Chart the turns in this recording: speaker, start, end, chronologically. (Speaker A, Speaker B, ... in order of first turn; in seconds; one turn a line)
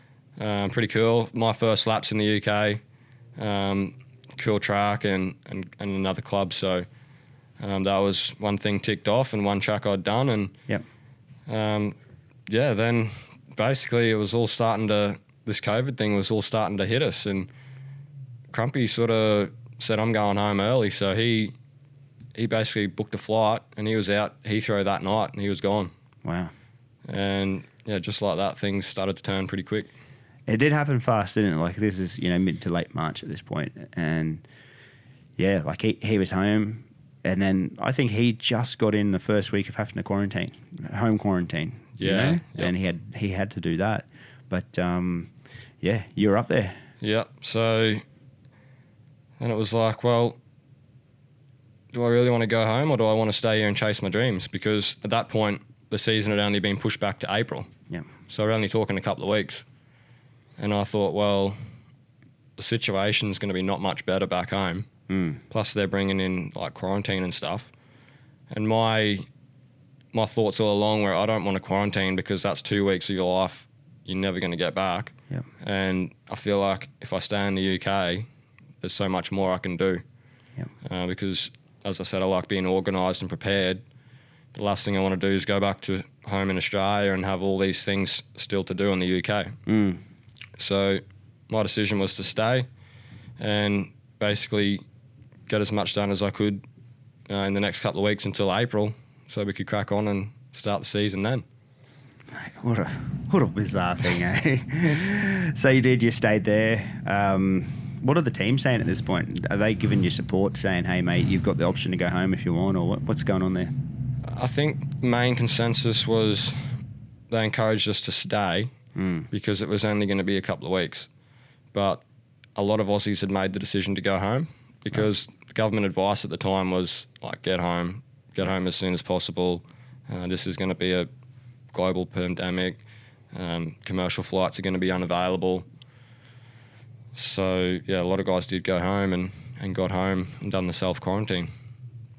Speaker A: 0.4-2.8
Speaker A: 3.4-6.9
Speaker A: 7.6-10.6
Speaker A: 11.5-12.0
Speaker A: 12.5-17.5
Speaker A: 18.5-21.5
Speaker A: 22.4-25.9
Speaker B: 26.2-26.5
Speaker A: 27.1-29.9
Speaker B: 30.5-34.4
Speaker B: 35.4-46.8
Speaker A: 42.0-42.7
Speaker A: 47.0-48.0
Speaker A: 49.4-50.4
Speaker A: 51.9-57.7
Speaker A: 58.3-59.6
Speaker A: 60.6-61.6
Speaker A: 62.6-64.9
Speaker B: 65.1-65.4
Speaker A: 65.5-67.7
Speaker A: 68.5-69.3
Speaker A: 70.1-78.3
Speaker A: 78.8-80.0
Speaker A: 80.8-83.8
Speaker A: 84.5-89.5
Speaker B: 89.7-90.0
Speaker A: 90.6-92.7
Speaker A: 93.4-94.8
Speaker A: 95.5-96.6
Speaker A: 97.3-101.4
Speaker B: 102.3-113.7
Speaker A: 114.3-116.6
Speaker A: 117.3-118.7
Speaker B: 119.0-119.3
Speaker A: 119.3-121.1
Speaker A: 121.7-122.0
Speaker A: 122.6-131.1
Speaker A: 131.7-132.8
Speaker A: 133.3-135.7
Speaker A: 137.2-141.5